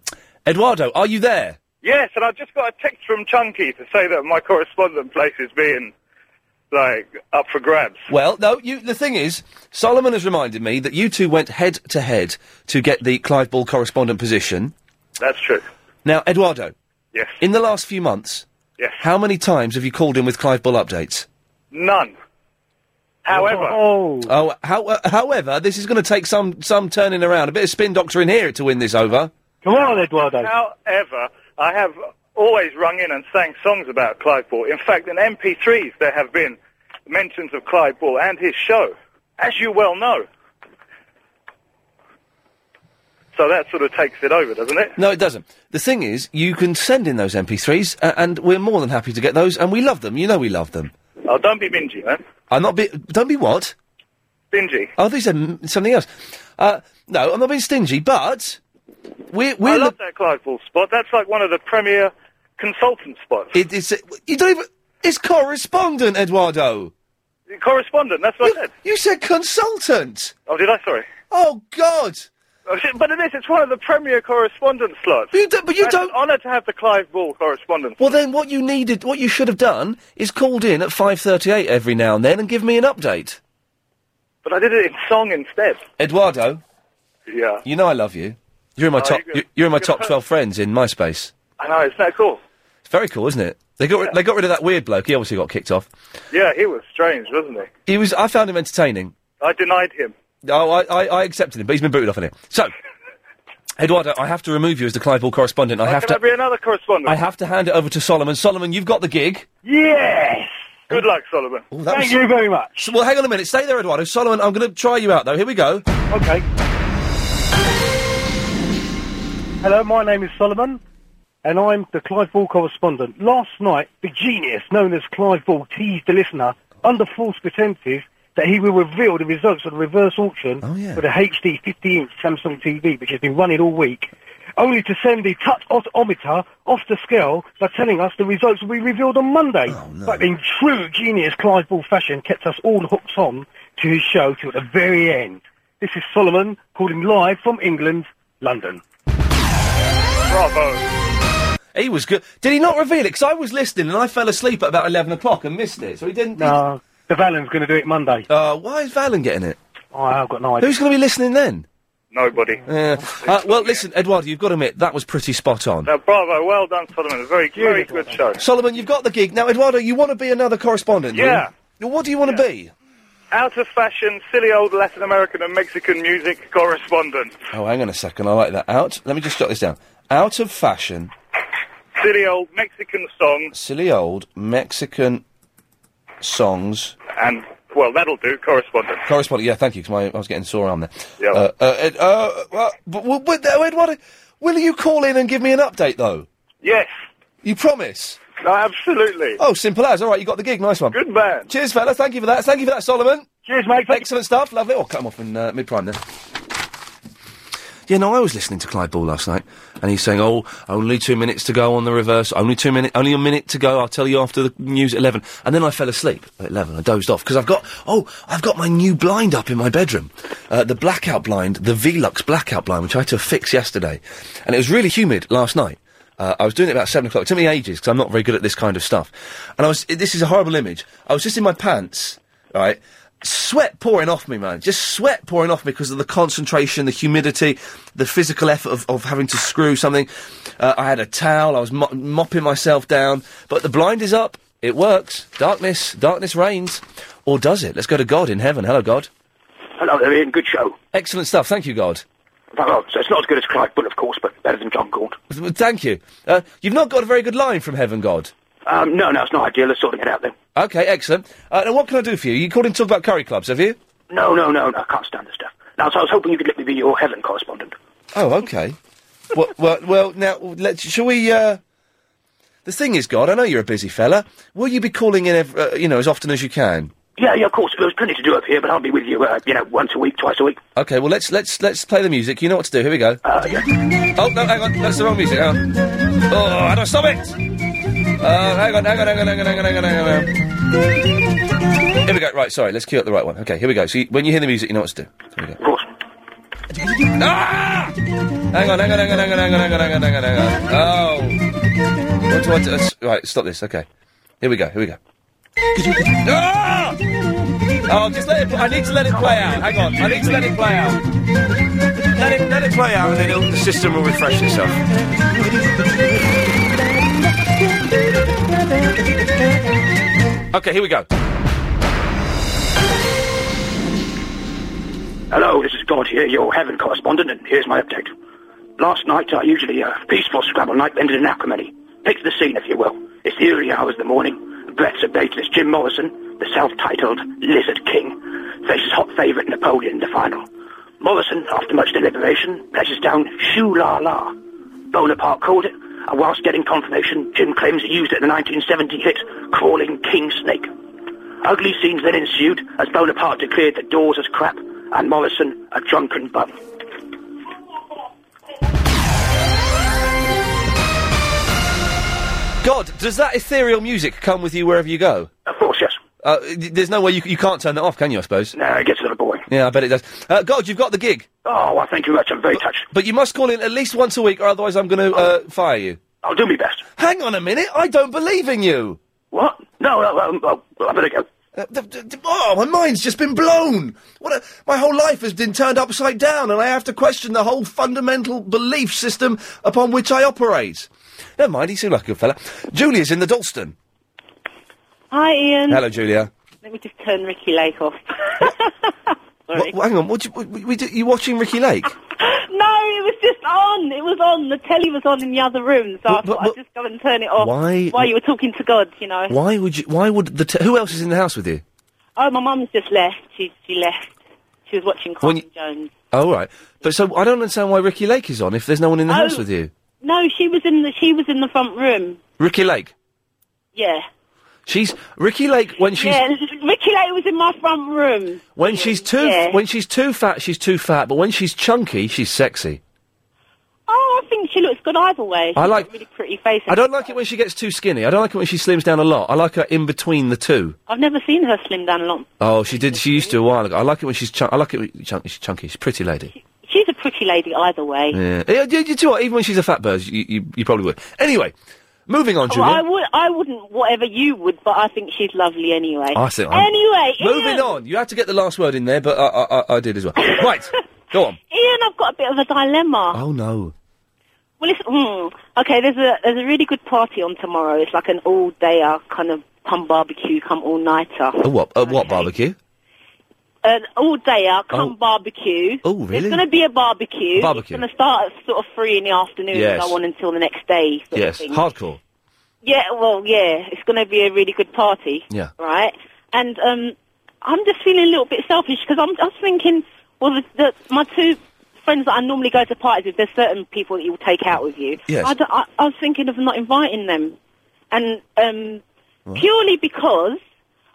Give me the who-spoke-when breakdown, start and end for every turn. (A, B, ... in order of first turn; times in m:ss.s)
0:00.4-0:01.6 A
0:01.8-0:05.9 B
0:06.7-0:08.0 B
0:08.1-0:14.7 A
0:15.2-0:15.6 B
0:16.0-0:16.7 A
0:17.4-0:18.4 A
0:19.0-0:21.3 A
0:21.7-0:22.2 B
0:23.2-0:23.8 B
0:23.3-0:24.3 C
0:24.2-0:29.3 A
0:29.6-0:30.5 C
0:30.4-0:40.2 B
0:43.3-0:44.9 B
0:45.0-0:50.9 A
0:51.2-0:52.2 B
0:52.5-0:53.7 A
0:54.5-0:54.9 B
0:55.0-0:58.6 A
0:59.3-0:59.9 A
0:59.6-1:03.5 B
1:03.5-1:06.9 A
1:07.5-1:08.7 B
1:08.4-1:10.3 A
1:10.5-1:11.1 B
1:11.3-1:12.3 A
1:12.7-1:18.1 B
1:15.3-1:16.2 A
1:18.0-1:23.4 A
1:24.4-1:25.8 B
1:26.0-1:26.6 A
1:27.3-1:27.6 B
1:27.6-1:31.3 A
1:29.0-1:30.1 B
1:31.6-1:32.4 B
1:32.9-1:35.9 A
1:36.3-1:37.7 B
1:37.8-1:39.1 A
1:39.4-1:40.1 B
1:40.4-1:42.7 A
1:43.8-1:46.2 A
1:45.8-1:47.2 B
1:47.0-1:49.5 A
1:49.6-1:50.5 C
1:50.9-1:51.6 B
1:51.7-1:52.2 A
1:51.9-1:52.9 C
1:52.8-1:55.8 A
1:56.1-1:56.4 C
1:59.6-2:00.8 C
2:01.4-2:28.8 C
2:10.6-2:11.0 A
2:19.7-2:20.3 A
2:30.3-2:30.8 B
2:31.7-2:36.6 A
2:36.4-2:38.2 C
2:38.3-2:39.6 A
2:39.9-2:40.7 C
2:40.6-2:41.6 A
2:42.1-2:42.6 B
2:42.7-2:45.9 A
2:43.2-2:43.8 B
2:45.8-2:48.4 B
2:47.5-2:48.2 C
2:48.4-2:52.7 A
2:51.1-2:51.5 B
2:53.3-2:57.3 B
2:57.5-3:01.1 A
3:02.0-3:03.5 B
3:03.5-3:05.2 A
3:06.2-3:07.0 A
3:07.1-3:09.0 B
3:09.0-3:16.3 A
3:16.6-3:16.9 B
3:17.4-3:18.2 A
3:18.4-3:19.4 B
3:19.4-3:23.2 A
3:20.9-3:21.5 B
3:23.4-3:24.0 C
3:23.9-3:26.0 A
3:27.9-4:09.1 A
4:09.8-4:10.7 D
4:10.9-4:12.0 A
4:12.5-4:15.2 D
4:15.3-4:18.3 A
4:18.6-4:20.3 D
4:20.5-4:23.8 A
4:24.1-4:27.7 D
4:28.1-4:28.8 A
4:29.3-4:31.6 A
4:32.6-4:36.9 A
4:37.2-4:40.6 D
4:40.7-4:43.2 A
4:43.2-4:43.6 D
4:44.1-4:45.7 A
4:46.3-4:47.4 A
4:48.2-4:50.3 A
4:52.0-4:55.6 A
4:55.6-4:55.9 D
4:57.0-4:58.0 A
4:58.5-5:01.4 A
5:02.2-5:03.8 A
5:04.4-5:05.0 A
5:05.8-5:07.0 A
5:07.8-5:11.0 A
5:12.1-5:14.8 A
5:20.5-5:21.1 A
5:25.3-5:28.1 D
5:28.8-5:40.4 D
5:41.0-5:44.3 D
5:44.9-5:50.7 D
5:51.4-5:56.6 D
6:02.6-6:05.3 A
6:05.4-6:06.0 D
6:06.2-6:08.6 A
6:08.5-6:09.4 D
6:09.5-6:11.3 A
6:11.4-6:12.8 D
6:12.5-6:16.0 A
6:16.2-6:16.8 D
6:17.0-6:19.0 A
6:19.3-6:21.2 D
6:21.5-6:33.7 A
6:35.1-6:35.8 E
6:35.7-6:36.3 A
6:36.6-6:39.7 E
6:39.5-6:41.9 A
6:42.2-6:49.3 E
6:46.1-6:46.6 A
6:47.4-6:48.1 A
6:49.3-6:51.6 A
6:52.2-6:55.9 E
6:56.1-6:59.7 A
6:59.1-6:59.4 E
7:00.0-7:02.2 E
7:02.4-7:02.9 A
7:03.7-7:04.0 E
7:04.6-7:06.2 A
7:05.9-7:09.6 E
7:08.6-7:12.8 A
7:13.9-7:17.2 E
7:15.6-7:15.9 A
7:16.7-7:20.8 A
7:20.9-7:23.4 E
7:22.4-7:26.3 A
7:26.3-7:28.2 E
7:28.1-7:31.5 A
7:32.1-7:32.8 A
7:32.5-7:37.7 E
7:36.1-7:41.4 A
7:41.5-7:43.2 E
7:43.1-7:43.7 A
7:44.6-7:52.3 E
7:51.4-7:52.6 A
7:53.6-8:01.6 E
7:55.8-7:56.4 A
7:57.4-7:57.8 A
7:59.5-8:00.0 A
8:01.1-8:02.0 A
8:02.6-8:17.4 E
8:15.1-8:15.3 A
8:17.9-8:18.8 E
8:19.3-8:20.4 E